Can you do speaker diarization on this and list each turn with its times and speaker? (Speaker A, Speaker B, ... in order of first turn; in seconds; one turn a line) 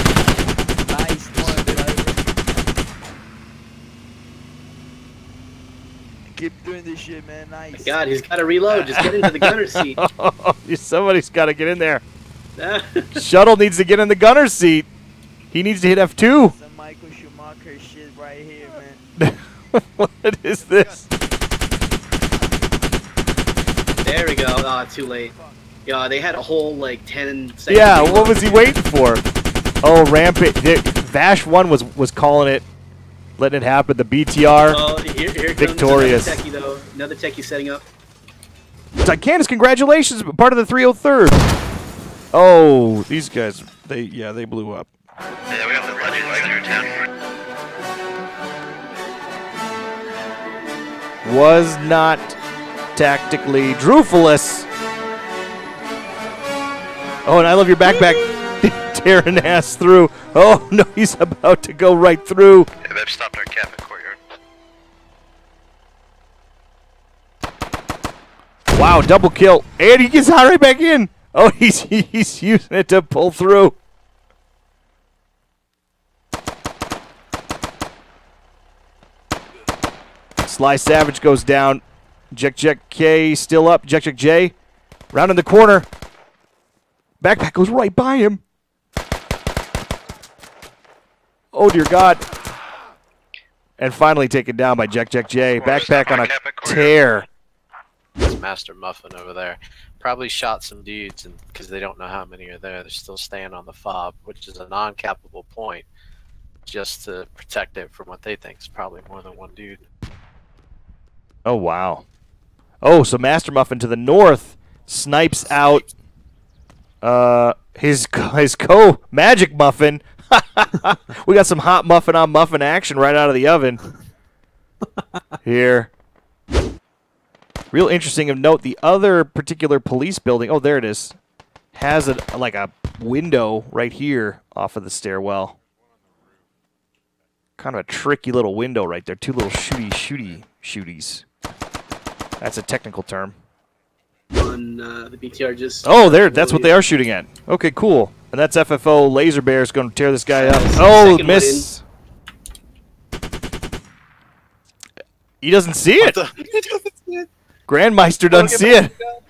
Speaker A: 0.9-2.2
Speaker A: 6.3-8.0
Speaker B: 7.7-10.0
Speaker C: 8.7-12.0
Speaker B: 12.6-13.2
Speaker C: 13.2-14.9
Speaker C: 15.5-16.5
Speaker A: 16.5-19.0
Speaker C: 19.2-21.1
Speaker B: 24.0-25.3
Speaker A: 25.2-25.6
Speaker B: 25.8-28.8
Speaker C: 27.7-29.2
Speaker C: 29.8-32.6
Speaker C: 33.4-34.8
Speaker B: 34.7-37.8
Speaker C: 35.6-36.4
Speaker C: 39.0-41.4
Speaker C: 42.3-44.9
Speaker D: 45.6-46.9
Speaker C: 51.2-52.4
Speaker C: 52.9-54.7
Speaker C: 57.2-62.7
Speaker C: 68.7-73.8
Speaker C: 80.4-84.5
Speaker C: 85.1-85.9
Speaker C: 87.2-88.4
Speaker C: 91.5-92.2
Speaker C: 93.8-97.3
Speaker D: 95.7-96.9
Speaker E: 98.2-105.9
Speaker E: 106.7-109.8
Speaker C: 111.4-112.0
Speaker C: 112.8-115.9
Speaker C: 117.0-123.8
Speaker C: 125.4-125.9
Speaker C: 127.7-131.2
Speaker C: 131.7-135.6
Speaker C: 137.6-141.2
Speaker C: 142.4-143.4
Speaker B: 144.3-146.8
Speaker C: 145.8-151.8
Speaker B: 150.3-151.7
Speaker C: 155.4-156.2
Speaker C: 157.7-158.9